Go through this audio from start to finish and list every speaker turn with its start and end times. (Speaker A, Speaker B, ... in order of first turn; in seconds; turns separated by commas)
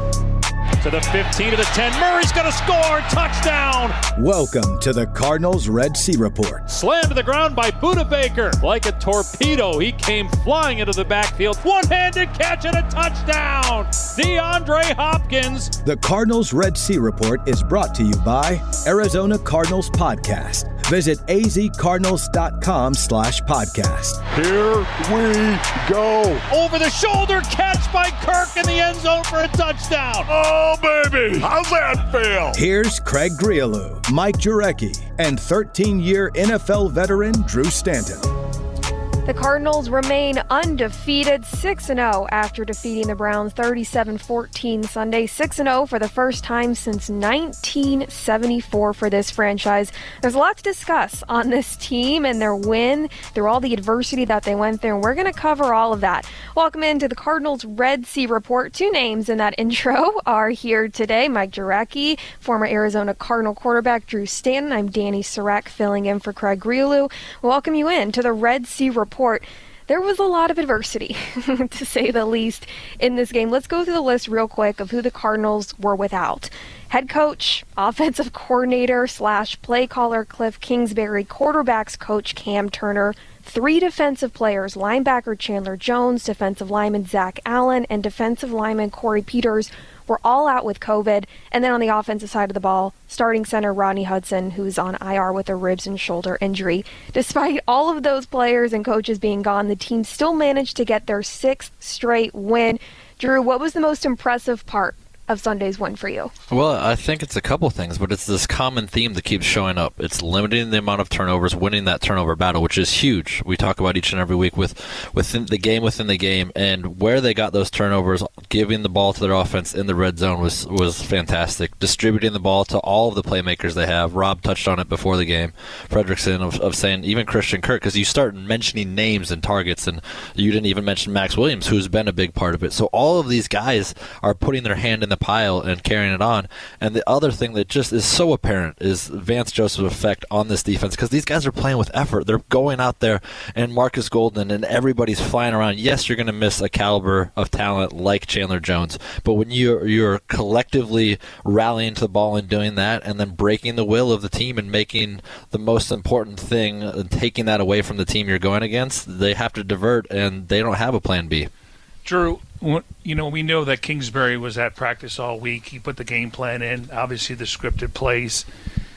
Speaker A: 0.8-4.0, Speaker B: 4.2-6.7, Speaker A: 6.7-15.7, Speaker B: 15.8-24.2, Speaker C: 24.3-26.4, Speaker A: 26.5-30.3, Speaker C: 30.3-32.6, Speaker B: 32.5-38.3, Speaker D: 39.3-106.3, Speaker E: 106.5-161.5, Speaker F: 162.1-168.5